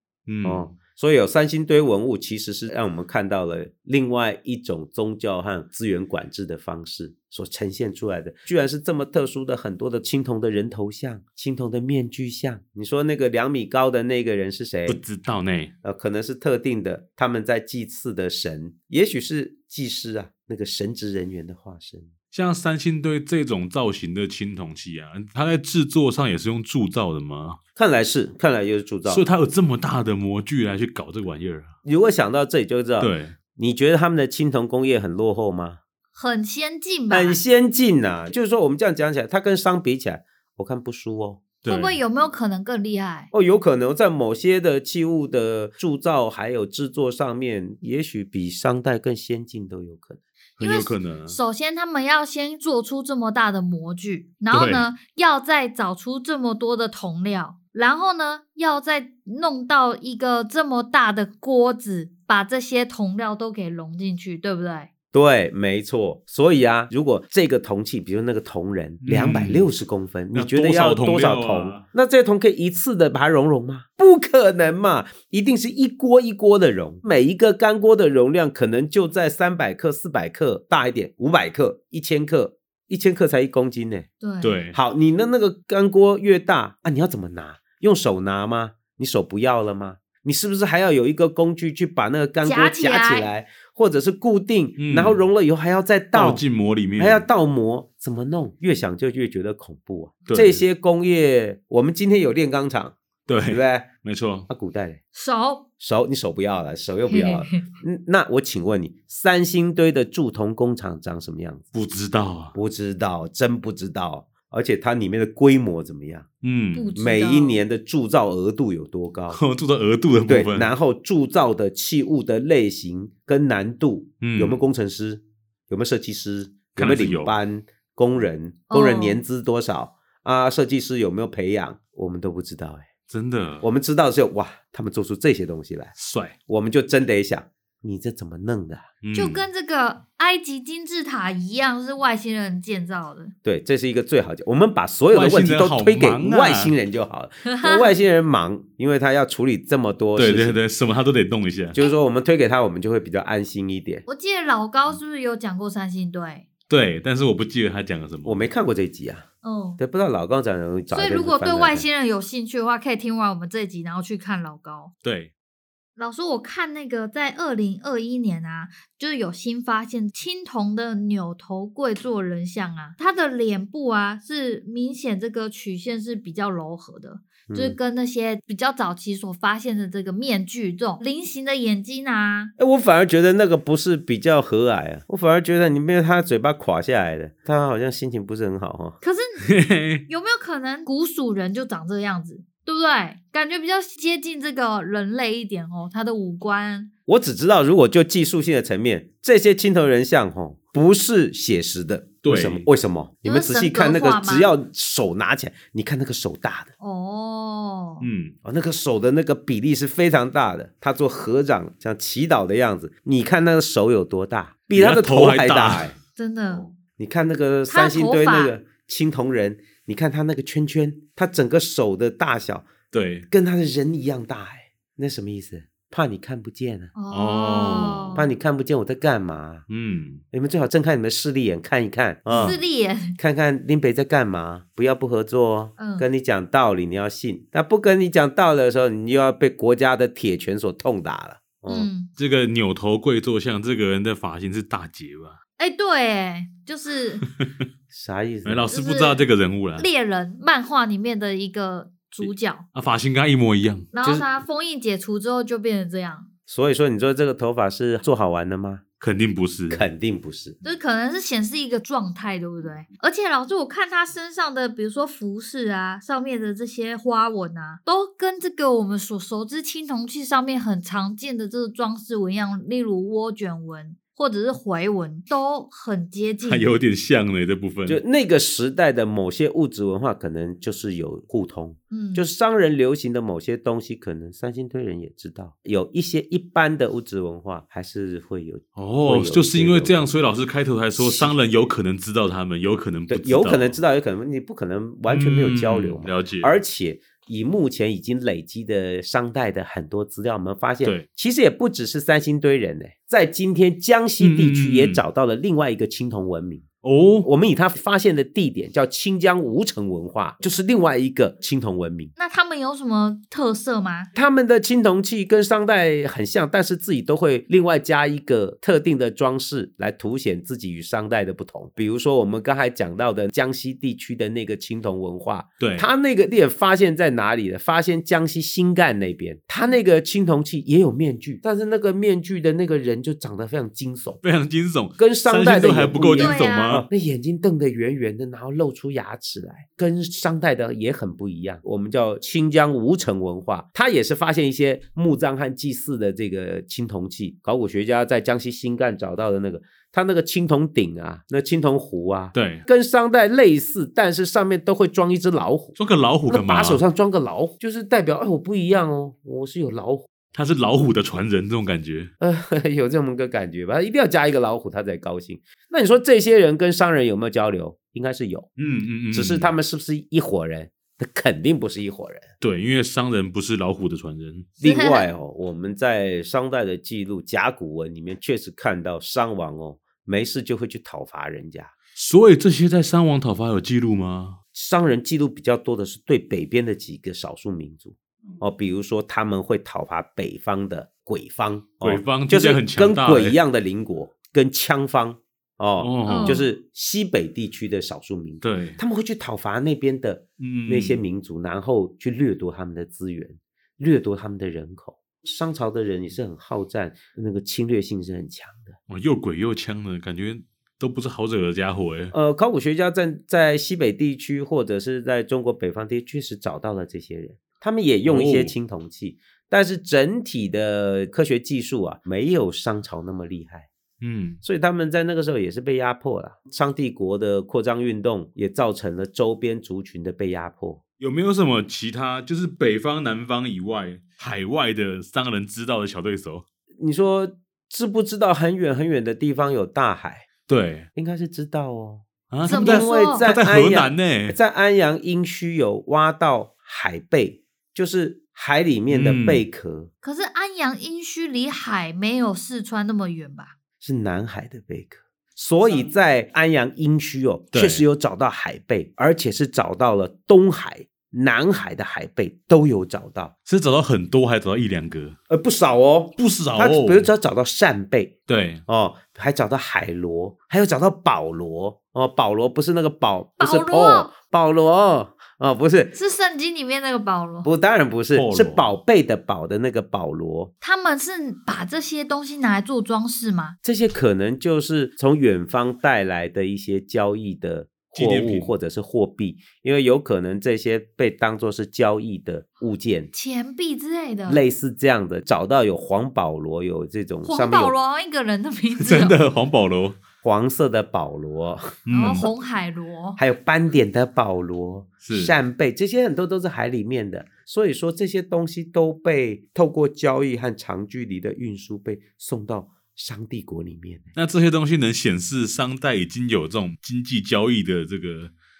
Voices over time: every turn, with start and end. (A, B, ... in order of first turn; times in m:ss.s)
0:00.3-0:00.7 A
0:00.4-0:15.0 B
0:14.9-0:15.7 A
0:15.8-0:22.1 B
0:22.3-0:27.6 A
0:27.8-0:29.2 B
0:29.0-0:31.7 A
0:31.8-0:35.8 B
0:33.0-0:33.4 A
0:36.1-0:37.4 C
0:37.1-0:41.4 B
0:41.6-0:42.0 A
0:41.6-0:43.3 C
0:43.3-0:50.2 B
0:50.6-0:51.4 A
0:50.6-1:04.9 C
0:54.5-0:54.8 A
1:05.1-1:24.1 B
1:09.0-1:09.7 A
1:10.3-1:11.8 A
1:24.2-1:24.6 C
1:24.4-1:24.8 A
1:24.7-1:36.4 B
1:32.4-1:33.3 C
1:34.8-1:35.2 A
1:36.1-1:37.2 A
1:37.0-1:43.9 B
1:40.2-1:40.6 A
1:43.3-1:44.5 A
1:44.5-1:45.0 B
1:45.1-1:45.6 C
1:45.8-1:51.7 B
1:47.1-1:47.6 C
1:51.7-1:52.5 A
1:52.5-1:56.3 B
1:56.4-1:56.9 A
1:56.7-1:57.6 C
1:57.0-1:59.4 B
1:59.3-2:00.7 A
2:00.3-2:12.9 B
2:04.2-2:04.6 A
2:06.7-2:07.4 A
2:08.7-2:09.2 C
2:13.1-2:13.6 A
2:13.6-2:15.9 B
2:16.0-2:16.4 A
2:16.5-2:18.9 B
2:19.0-2:19.5 A
2:19.1-2:23.3 C
2:23.4-2:30.6 B
2:25.1-2:26.7 A
2:27.4-2:27.9 C
2:30.2-2:31.8 A
2:31.7-2:34.0 B
2:34.1-2:36.5 C
2:36.7-2:38.5 A
2:38.2-2:39.3 B
2:39.4-2:39.8 C
2:39.8-2:41.9 B
2:40.9-2:44.9 C
2:45.0-2:45.3 A
2:46.0-3:02.5 C
2:57.5-2:57.8 B
3:02.6-3:09.0 B
3:09.0-3:09.5 C
3:09.4-3:10.0 A
3:10.1-3:16.9 C
3:17.1-3:26.7 B
3:22.2-3:22.6 A
3:23.2-3:24.5 C
3:26.8-3:28.1 C
3:28.0-3:28.3 A
3:28.4-3:35.9 B
3:34.7-3:35.9 A
3:36.2-3:36.7 C
3:37.0-3:42.7 B
3:37.7-3:38.5 C
3:42.9-3:43.2 A
3:43.3-3:46.9 B
3:46.9-3:48.3 C
3:47.1-3:48.2 A
3:48.1-3:49.6 B
3:49.7-3:50.2 A
3:50.3-3:52.6 B
3:52.3-3:52.6 A
3:52.4-3:53.2 C
3:53.2-4:01.9 B
3:55.8-3:56.0 C
4:01.7-4:02.1 C
4:02.2-4:05.4 A
4:05.6-4:07.2 C
4:07.2-4:07.6 A
4:07.9-4:08.7 B
4:08.4-4:09.9 A
4:08.7-4:09.2 C
4:09.8-4:12.6 C
4:12.2-4:13.9 A
4:13.9-4:16.3 C
4:14.0-4:14.3 B
4:16.5-4:18.8 B
4:19.0-4:19.8 A
4:19.7-4:20.6 B
4:20.6-4:36.7 C
4:36.4-4:38.0 A
4:37.8-4:50.0 B
4:41.9-4:42.2 C
4:48.8-4:53.8 A
4:51.0-4:51.3 B
4:53.1-5:06.6 B
4:55.1-4:56.5 A
5:04.2-5:05.0 A
5:06.8-5:07.3 A
5:07.2-5:12.1 B
5:12.2-5:14.1 C
5:14.1-5:34.2 B
5:25.6-5:25.9 A
5:34.2-5:36.8 A
5:35.0-5:55.8 B
5:36.2-5:36.8 C
5:52.3-5:52.6 A
5:55.8-5:56.8 A
5:56.3-6:00.1 B
6:00.3-6:02.1 A
6:02.2-6:08.5 B
6:08.6-6:09.5 A
6:09.1-6:12.3 B
6:12.4-6:14.5 A
6:14.6-6:21.7 B
6:14.6-6:15.1 C
6:22.0-6:24.4 A
6:24.5-6:48.8 B
6:31.8-6:33.4 A
6:35.8-6:36.4 A
6:36.0-6:36.4 C
6:38.4-6:38.8 A
6:40.4-6:41.0 A
6:48.9-6:52.1 A
6:52.1-7:03.7 B
6:58.0-6:58.5 A
7:04.0-7:04.4 A
7:04.4-7:10.8 B
7:11.0-7:16.4 A
7:16.8-7:20.3 B
7:20.5-7:20.9 A
7:20.9-7:29.9 B
7:22.3-7:24.4 A
7:22.5-7:23.2 C
7:28.9-7:29.4 A
7:30.0-7:33.5 C
7:33.8-7:43.3 B
7:37.5-7:37.8 A
7:43.4-7:45.2 A
7:45.3-7:48.1 B
7:46.2-7:47.1 A
7:48.3-7:48.6 A
7:48.7-7:55.9 B
7:53.4-7:54.1 C
7:55.9-7:57.5 C
7:57.4-8:00.5 B
7:58.1-7:58.7 A
8:00.6-8:03.6 C
8:03.6-8:13.1 B
8:07.9-8:08.5 A
8:13.1-8:14.4 C
8:14.3-8:17.8 B
8:17.2-8:19.2 C
8:18.8-8:20.0 A
8:20.2-8:21.8 B
8:21.8-8:22.3 A
8:21.9-8:23.2 C
8:23.2-8:34.1 B
8:25.0-8:25.4 A
8:34.1-8:38.3 A